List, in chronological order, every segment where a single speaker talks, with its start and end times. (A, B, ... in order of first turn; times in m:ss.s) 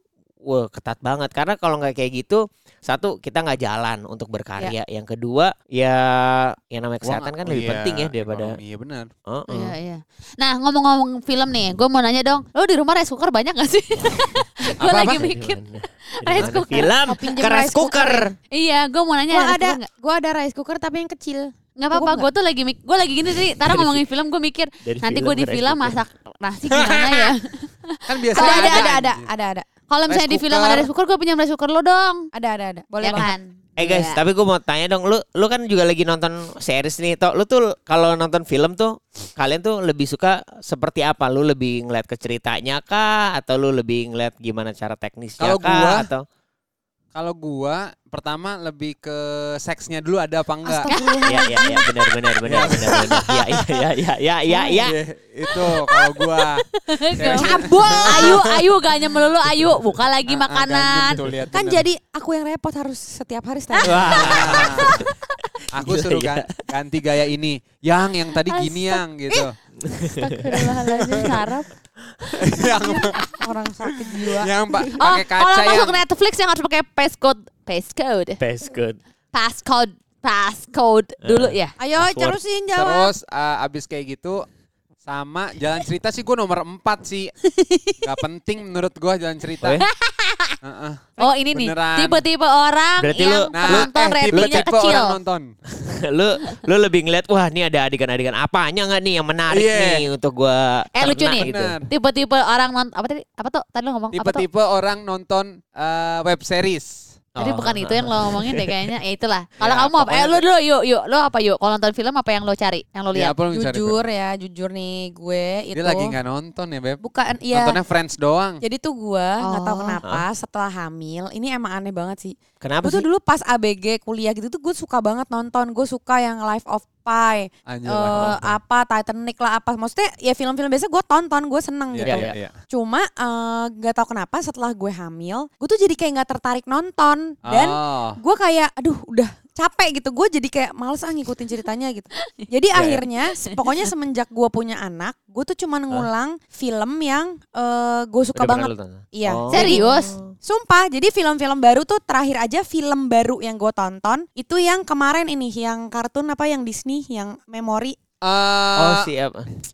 0:00.4-0:08.6 A
0:07.0-0:09.1 B
0:09.3-0:09.8 A
0:09.5-0:16.9 C
0:14.8-0:15.3 B
0:15.1-0:18.3 A
0:16.7-0:18.3 D
0:18.5-0:19.8 C
0:19.3-0:22.3 D
0:21.8-0:28.9 C
0:23.6-0:24.0 A
0:24.8-0:26.0 A
0:26.7-0:27.2 B
0:28.0-0:29.3 B
0:28.4-0:29.7 D
0:29.9-0:32.3 C
0:30.1-0:30.9 B
0:32.3-0:33.3 D
0:33.0-0:34.2 C
0:33.8-0:46.2 A
0:45.4-0:46.1 B
0:47.1-0:50.9 B
0:50.6-0:51.9 D
0:50.9-0:51.3 C
0:51.3-0:55.0 A
0:52.5-0:53.6 B
0:54.8-0:58.6 B
0:55.5-1:01.2 C
0:57.2-0:58.5 D
1:00.3-1:01.9 B
1:01.5-1:04.7 D
1:03.7-1:05.1 C
1:03.8-1:04.9 A
1:04.1-1:05.1 B
1:05.7-1:06.6 A
1:05.8-1:09.6 B
1:08.5-1:09.5 C
1:09.8-1:10.4 A
1:10.1-1:11.7 C
1:10.9-1:11.4 B
1:12.4-1:13.2 B
1:12.6-1:14.5 D
1:14.0-1:16.0 B
1:14.9-1:18.4 C
1:18.4-1:19.0 A
1:19.3-1:21.7 C
1:21.2-1:22.4 A
1:21.8-1:23.1 D
1:22.8-1:24.5 B
1:25.0-1:27.3 B
1:27.5-1:28.2 C
1:28.0-1:29.8 B
1:29.6-1:29.9 A
1:29.8-1:30.6 C
1:30.6-1:32.2 B
1:31.2-1:35.2 C
1:33.0-1:34.7 A
1:33.5-1:35.5 B
1:35.8-1:41.8 A
1:39.5-1:40.0 B
1:41.0-1:44.4 C
1:41.4-1:41.9 B
1:44.1-1:47.2 B
1:47.4-1:48.9 A
1:47.4-1:53.4 C
1:49.6-1:50.4 B
1:53.1-1:54.0 B
1:53.5-1:56.2 D
1:55.8-1:57.0 B
1:57.0-1:57.8 D
1:57.5-1:58.6 B
1:58.6-2:29.9 D
1:59.4-2:00.0 C
2:02.6-2:03.1 A
2:07.7-2:08.6 B
2:11.9-2:12.5 B
2:12.0-2:12.4 A
2:17.5-2:18.2 B
2:22.7-2:23.0 A
2:23.5-2:23.9 C
2:28.4-2:30.3 A
2:29.5-2:30.2 C
2:30.4-2:38.0 D
2:38.2-2:39.1 B
2:38.8-2:39.6 A